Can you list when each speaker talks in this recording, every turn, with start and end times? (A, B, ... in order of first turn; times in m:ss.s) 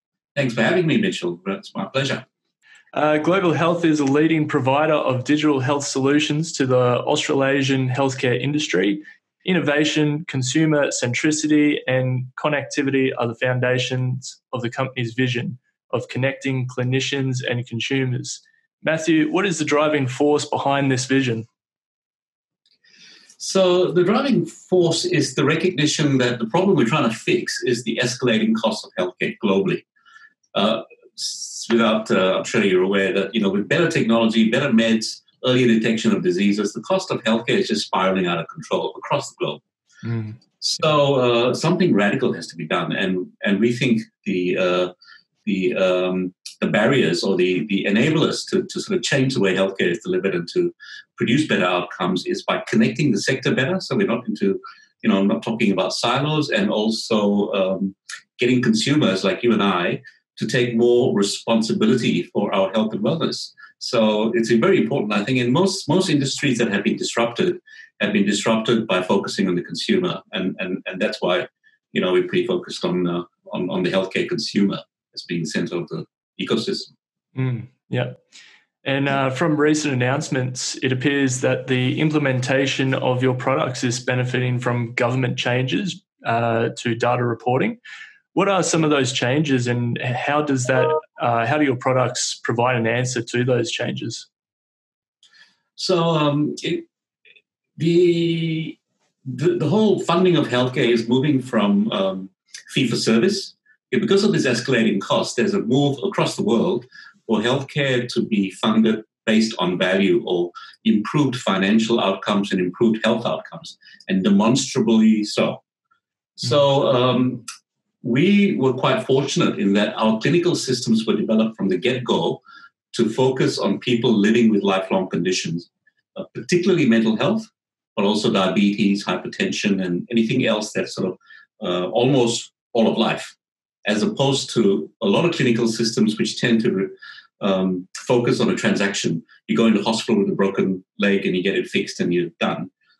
0:00.3-0:02.2 A
0:02.9-0:21.5 B
0:23.4-0:29.8 A
0:30.5-0:39.6 A
0:40.0-0:40.4 B
0:40.6-0:44.9 A
0:45.4-1:16.9 A
1:17.3-1:18.2 B
1:18.8-1:27.8 B
1:28.3-1:34.3 B
1:35.8-1:36.8 A
1:37.8-1:55.6 A
1:56.4-1:57.4 A
1:58.0-2:02.4 A
2:02.9-2:13.3 A
2:13.8-2:22.7 A